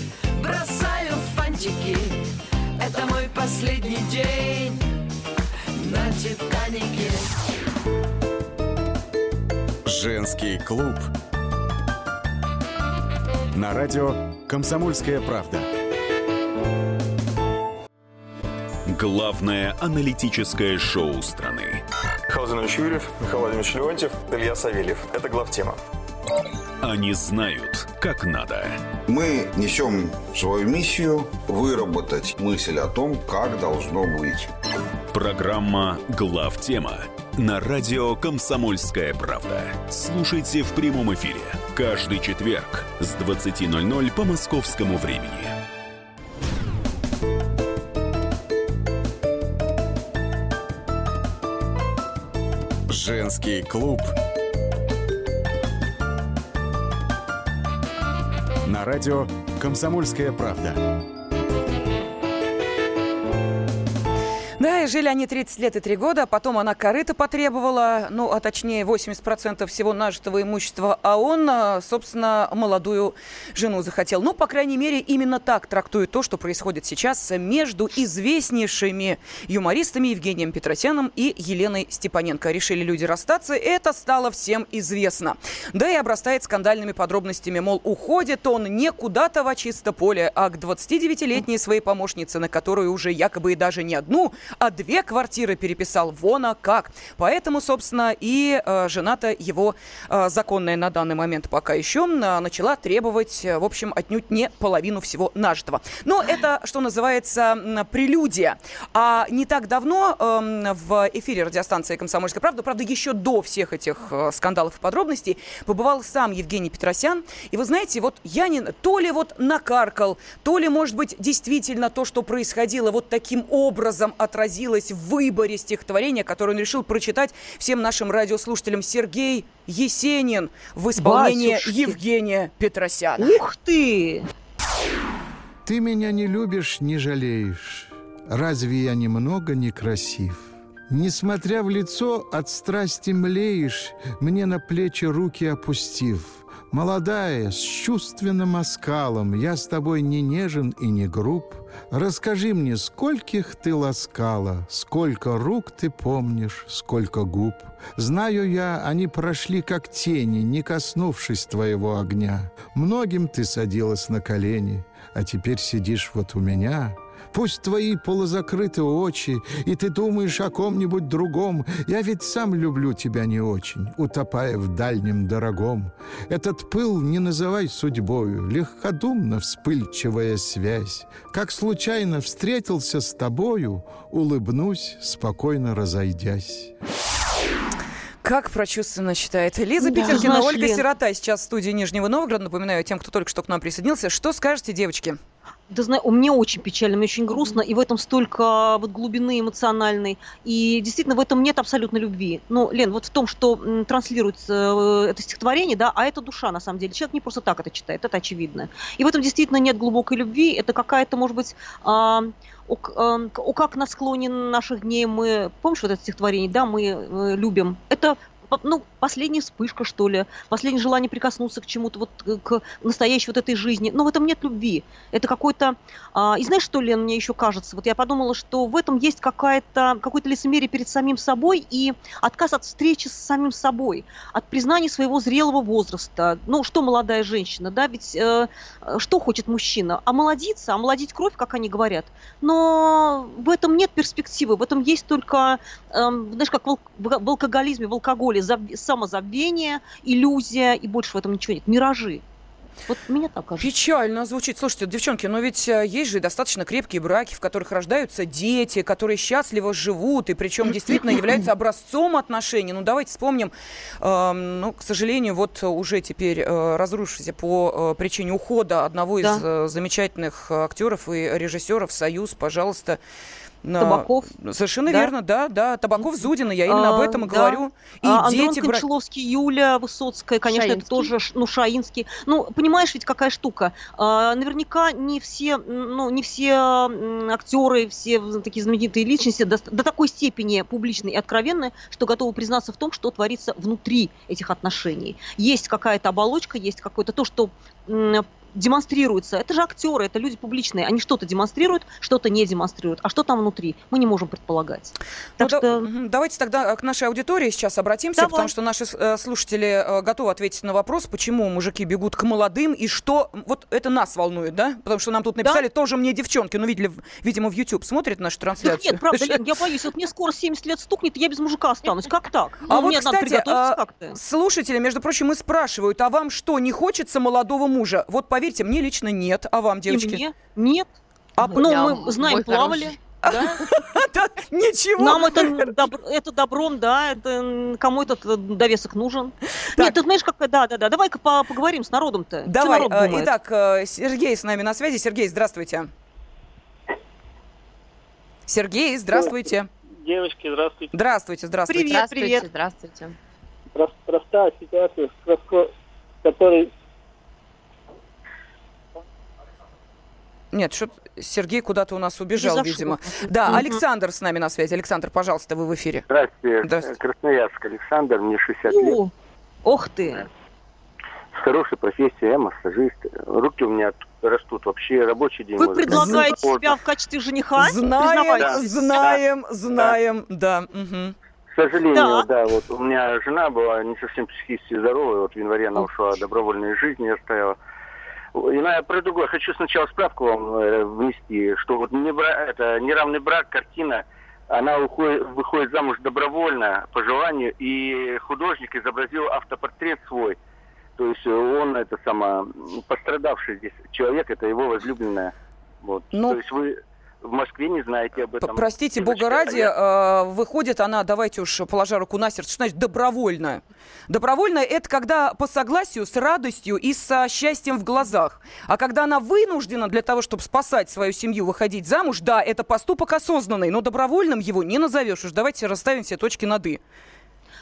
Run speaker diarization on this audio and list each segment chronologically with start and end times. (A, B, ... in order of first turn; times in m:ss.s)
0:00.3-0:04.8 A
0:05.8-0:07.2 A
0:09.8-0:11.1 B
0:13.5-0:15.7 B
0:18.8-0:21.8 C
0:22.3-0:25.8 D
0:26.8-0:28.8 C
0:29.1-0:34.5 E
0:35.1-0:45.6 C
0:52.9-0:54.1 B
0:58.6-1:00.8 B
1:04.6-2:13.4 F
2:11.0-2:12.0 G
2:13.2-2:14.3 G
2:15.6-3:06.7 H
3:08.2-3:15.2 F
3:09.8-3:10.8 G
3:15.7-4:12.2 G
4:12.9-4:13.7 G
4:13.6-4:33.0 F
4:33.6-4:38.8 F
4:33.8-4:34.3 G
4:34.9-4:35.1 G
4:36.6-5:05.9 G
4:40.5-4:41.1 I
5:05.4-5:19.4 F
5:08.2-5:08.5 G
5:18.6-5:24.2 G
5:22.7-5:30.2 F
5:29.9-5:30.9 G
5:31.4-5:32.0 F
5:31.5-5:33.0 G
5:31.5-5:33.5 I
5:33.2-5:35.7 F
5:35.0-5:43.3 G
5:42.4-5:45.9 F
5:48.5-5:49.7 F
5:50.0-5:50.9 J
5:50.9-5:52.0 F
5:51.7-5:52.4 G
5:51.8-5:53.1 I
5:53.7-5:55.7 J
5:56.2-5:56.7 J
6:00.5-6:06.0 F
6:02.4-6:03.8 G
6:06.1-6:09.0 K
6:06.6-6:06.9 F
6:08.7-6:09.1 G
6:09.6-6:10.2 G
6:11.3-6:16.7 K
6:15.6-6:18.9 G
6:15.9-6:16.3 F
6:17.6-6:21.1 F
6:18.4-6:19.2 K
6:21.5-6:27.6 K
6:21.9-6:22.3 G
6:28.3-6:40.4 K
6:41.0-6:49.7 K
6:46.1-6:46.4 F
6:48.4-7:06.8 F